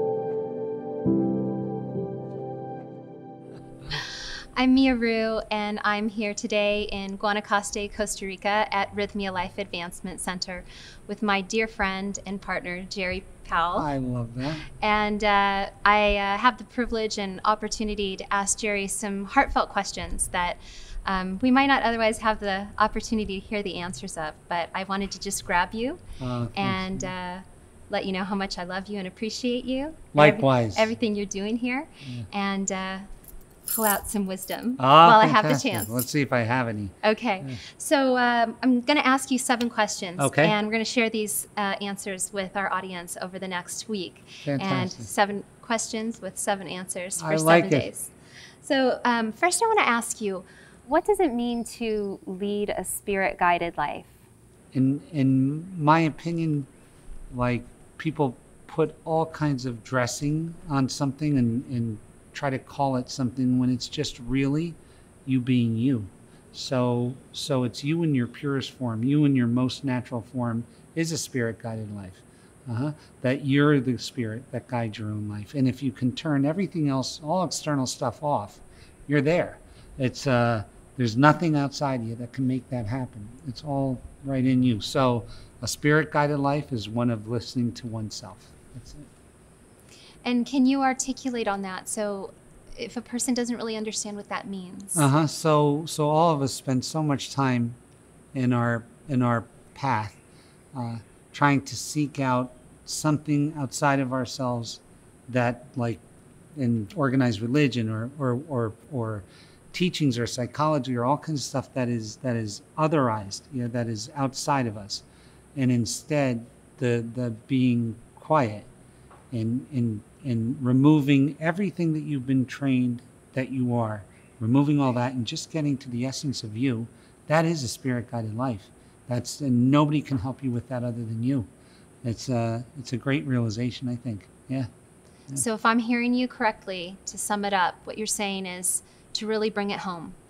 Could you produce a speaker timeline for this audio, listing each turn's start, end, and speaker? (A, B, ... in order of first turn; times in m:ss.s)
0:04.5-0:13.9 A
0:13.7-0:14.7 B
0:14.7-0:26.0 A
0:26.2-0:27.1 B
0:26.5-0:33.0 A
0:30.1-0:30.9 B
0:33.7-0:36.0 A
0:34.8-0:37.6 B
0:37.0-0:54.1 A
0:40.2-0:40.6 B
0:44.4-0:45.1 B
0:47.2-0:47.9 B
0:54.7-0:56.7 B
0:57.3-1:29.1 B
1:30.2-1:35.1 A
1:35.0-1:37.8 B
1:38.3-1:40.2 B
1:40.7-1:46.0 B
1:46.5-1:55.0 B
1:55.6-1:58.7 B
1:59.3-2:11.5 B
2:12.0-2:14.7 B
2:15.3-2:20.2 A